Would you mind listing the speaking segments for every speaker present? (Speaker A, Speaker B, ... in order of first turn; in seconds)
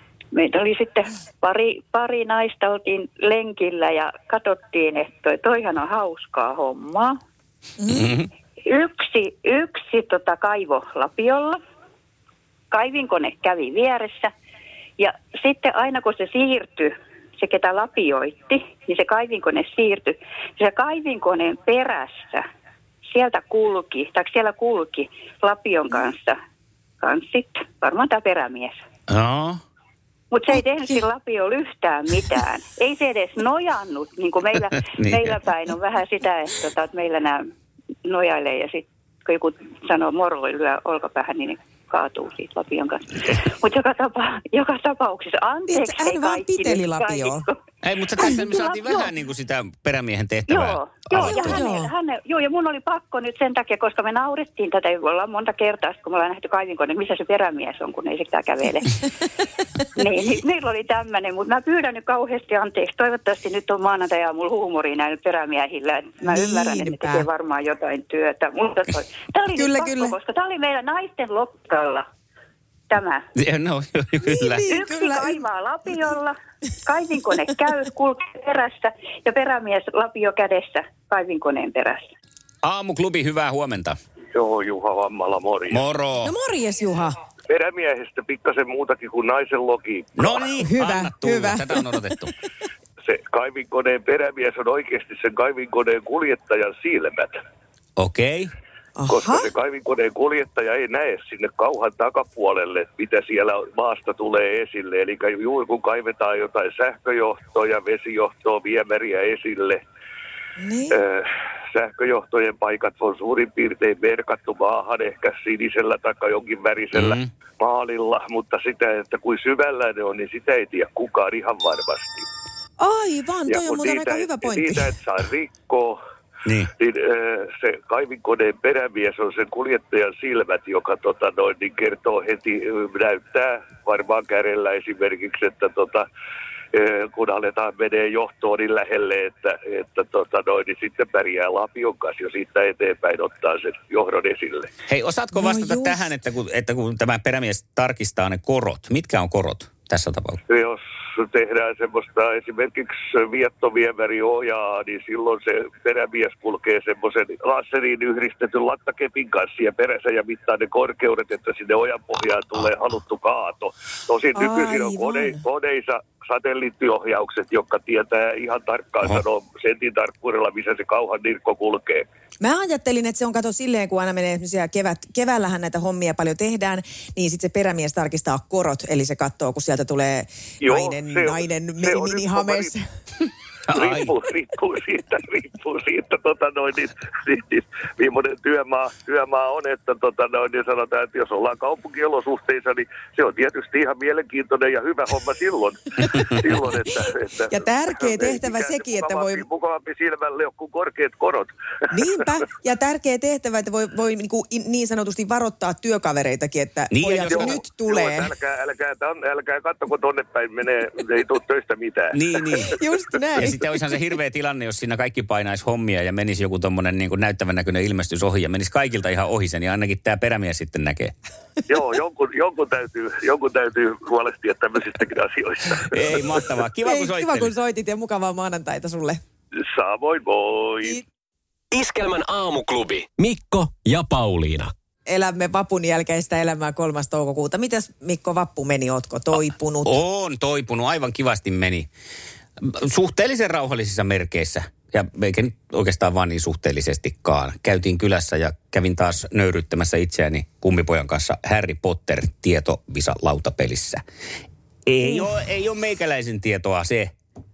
Speaker A: 0.3-7.2, 8.6-11.6, 12.7-14.3, 15.0-22.4, 23.1-26.4, 27.0-28.8, 30.3-37.5, 38.0-47.6, 48.2-49.0, 50.5-58.9, 59.9-72.0, 72.9-73.2, 74.6-82.1
Speaker B: 7.8-8.1, 45.7-47.4, 51.1-51.9, 66.2-67.2, 69.5-70.2, 74.2-75.4, 86.2-87.2, 90.6-92.2, 99.0-99.5, 110.6-111.0, 122.8-124.9, 145.3-146.1, 164.3-165.4, 172.4-182.8, 197.5-199.4, 201.9-208.3, 212.7-213.6, 226.8-229.2, 235.1-240.0
Speaker C: 7.9-8.3, 29.1-29.6, 35.0-35.4, 47.8-51.6, 73.3-74.7, 82.6-84.0, 85.7-86.3, 90.2-92.3, 98.0-98.5, 116.9-117.3, 126.4-126.7, 144.9-150.4, 183.7-184.1, 206.9-207.6, 212.1-212.8, 213.4-221.1, 225.9-227.5, 239.8-241.9, 242.6-254.0, 254.8-257.1
Speaker D: 84.3-85.9, 87.5-90.5, 93.0-97.4, 99.1-109.8, 110.9-122.3, 123.5-126.0, 126.8-136.1, 136.7-144.7, 150.5-172.1, 180.6-182.7, 183.7-202.3, 207.3-212.7, 221.7-226.3, 229.6-231.0
Speaker E: 231.7-234.7